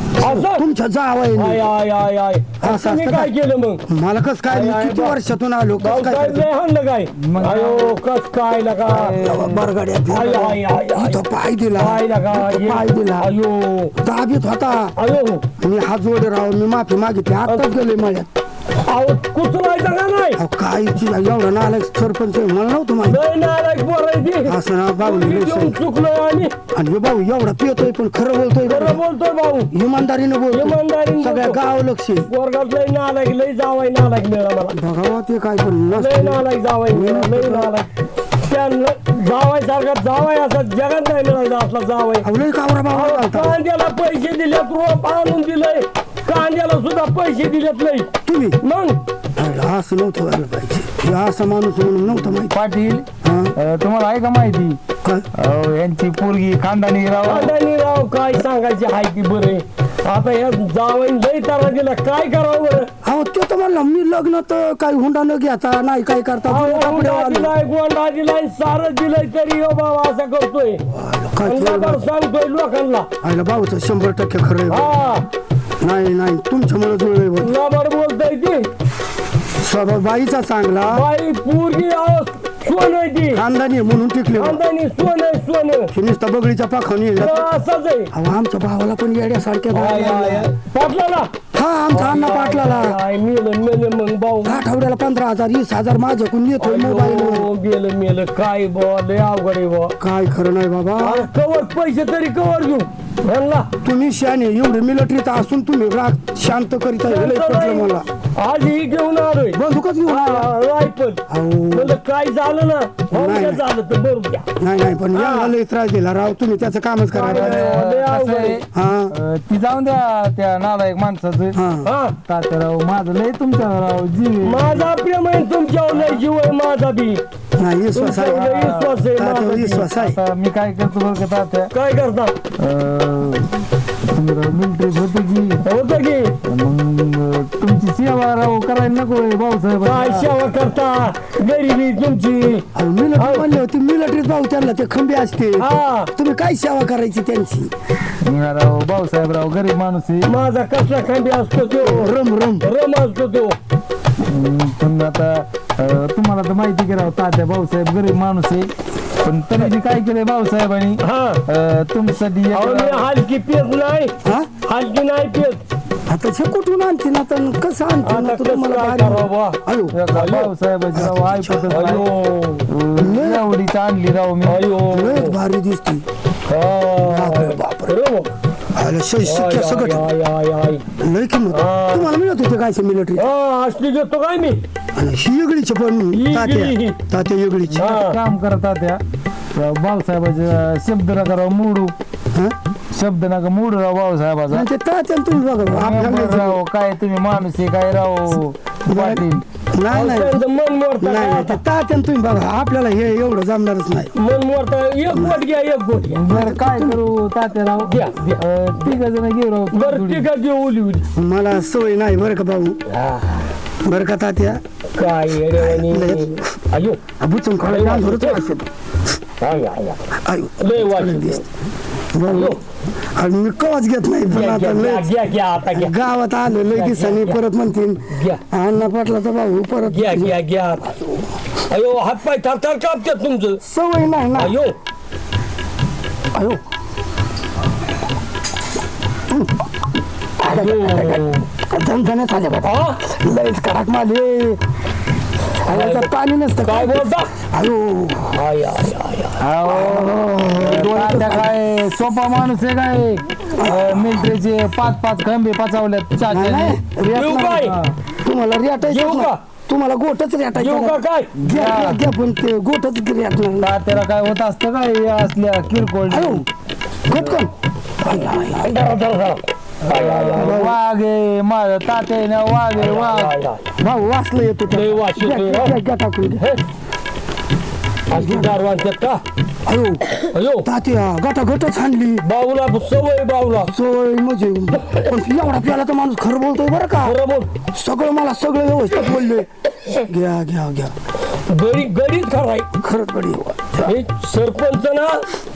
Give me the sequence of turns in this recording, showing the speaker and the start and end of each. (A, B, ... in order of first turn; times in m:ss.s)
0:00.2-0:01.6 A
0:00.2-0:00.6 B
0:01.4-0:03.8 B
0:02.6-0:03.3 A
0:03.9-0:06.4 A
0:04.5-0:05.2 B
0:05.8-0:09.2 B
0:07.2-0:07.9 C
0:08.9-0:13.3 A
0:09.1-0:09.6 C
0:10.1-0:11.2 B
0:11.8-0:13.9 B
0:14.0-0:14.9 A
0:15.0-0:15.4 B
0:15.6-0:18.3 A
0:18.9-0:20.4 B
0:20.4-0:23.2 A
0:23.0-0:26.5 B
0:24.4-0:25.8 A
0:26.7-0:29.0 A
0:28.6-0:29.7 B
0:29.7-0:32.3 A
0:30.5-0:31.6 B
0:32.3-0:34.8 B
0:34.7-0:37.7 A
0:35.9-0:37.9 B
0:38.4-0:42.3 B
0:42.2-0:43.6 A
0:42.9-0:48.1 B
0:48.2-0:48.6 A
0:48.6-0:49.0 B
0:49.4-0:52.6 A
0:52.1-0:54.8 C
0:53.2-0:53.5 A
0:55.3-0:57.5 C
0:57.2-1:02.9 B
1:03.0-1:07.5 A
1:06.5-1:10.8 B
1:10.9-1:12.0 A
1:11.4-1:13.1 B
1:13.2-1:14.9 A
1:14.7-1:15.2 B
1:15.8-1:17.6 A
1:17.4-1:18.7 B
1:19.6-1:21.0 A
1:20.8-1:23.4 B
1:23.3-1:24.6 A
1:24.4-1:25.9 B
1:25.9-1:27.4 A
1:27.2-1:28.1 B
1:28.1-1:30.5 A
1:29.7-1:31.3 B
1:31.5-1:33.0 A
1:31.9-1:34.6 B
1:34.4-1:37.5 A
1:36.6-1:40.0 B
1:40.0-1:41.3 A
1:41.0-1:43.7 B
1:43.8-1:48.0 A
1:47.0-1:54.4 B
1:49.5-1:50.5 A
1:51.3-1:52.0 A
1:53.1-1:53.6 A
1:54.6-1:57.7 A
1:55.1-1:55.5 B
1:57.1-1:58.6 B
1:57.3-2:01.6 C
1:58.7-1:59.1 A
2:01.5-2:01.9 A
2:01.8-2:02.2 B
2:02.3-2:04.8 C
2:04.4-2:07.2 B
2:07.6-2:10.2 A
2:07.9-2:10.0 B
2:09.9-2:11.7 C
2:11.7-2:12.3 B
2:12.6-2:13.5 C
2:14.1-2:15.6 C
2:15.6-2:16.3 B
2:16.4-2:20.3 C
2:19.8-2:22.6 B
2:22.8-2:27.7 A
2:23.2-2:23.5 B
2:25.6-2:26.1 B
2:28.2-2:30.3 C
2:30.2-2:33.5 B
2:31.8-2:32.6 A
2:34.3-2:38.7 C
2:39.2-2:43.1 C
2:41.0-2:41.4 B
2:42.5-2:44.1 B
2:44.2-2:44.5 A
2:44.6-2:45.6 B
2:46.1-2:50.0 A
2:48.0-2:49.6 B
2:49.9-2:52.0 C
2:50.1-2:50.5 B
2:50.9-2:51.9 A
2:51.7-2:52.7 B
2:52.7-2:54.6 C
2:53.0-2:53.5 A
2:54.4-2:55.4 B
2:54.8-2:56.0 A
2:56.5-2:58.3 B
2:57.0-2:58.0 A
2:58.8-3:00.1 A
2:59.2-3:00.8 B
3:01.0-3:03.3 A
3:01.5-3:02.1 B
3:03.2-3:04.6 B
3:05.0-3:07.9 A
3:06.1-3:07.0 B
3:07.7-3:09.0 C
3:07.8-3:08.2 B
3:09.5-3:11.9 C
3:12.9-3:14.6 C
3:14.5-3:16.6 A
3:15.7-3:19.4 C
3:18.9-3:20.4 A
3:19.9-3:21.6 B
3:21.0-3:24.1 A
3:24.2-3:26.2 B
3:26.1-3:30.2 C
3:26.3-3:27.0 A
3:27.8-3:29.0 B
3:29.7-3:31.0 B
3:31.1-3:32.8 A
3:32.9-3:33.4 B
3:33.8-3:34.6 A
3:35.0-3:37.0 B
3:35.6-3:36.4 A
3:37.2-3:38.6 A
3:37.6-3:38.5 B
3:39.4-3:40.0 B
3:40.2-3:41.4 A
3:40.6-3:41.4 B
3:42.1-3:42.6 A
3:42.3-3:42.6 B
3:43.2-3:45.1 A
3:44.3-3:46.0 B
3:45.7-3:51.2 A
3:46.7-3:47.4 B
3:48.1-3:48.4 B
3:49.9-3:50.9 B
3:51.7-3:53.6 B
3:53.6-3:54.6 A
3:54.3-3:54.8 B
3:56.3-3:56.6 A
4:00.4-4:04.6 A
4:00.4-4:01.4 B
4:02.6-4:03.0 B
4:05.6-4:08.4 A
4:05.7-4:06.1 B
4:06.6-4:07.3 B
4:08.3-4:09.4 B
4:09.4-4:16.8 C
4:09.6-4:11.6 A
4:13.6-4:14.3 A
4:16.3-4:23.8 A
4:17.1-4:17.8 B
4:18.8-4:19.4 B
4:20.5-4:21.3 B
4:21.4-4:22.0 C
4:23.6-4:26.4 C
4:26.1-4:26.4 A
4:27.1-4:27.5 A
4:28.0-4:28.8 A
4:28.4-4:30.7 B
4:30.1-4:33.3 C
4:30.4-4:30.8 A
4:32.7-4:33.6 B
4:33.8-4:36.4 A
4:34.7-4:35.8 B
4:38.1-4:39.2 B
4:38.1-4:38.6 A
4:39.7-4:40.0 A
4:40.3-4:40.7 B
4:40.6-4:42.2 A
4:42.2-4:43.7 B
4:43.6-4:47.2 A
4:47.0-4:47.5 B
4:47.7-4:49.5 A
4:50.0-4:50.9 A
4:51.5-4:52.7 B
4:52.8-4:54.0 A
4:53.8-4:55.2 B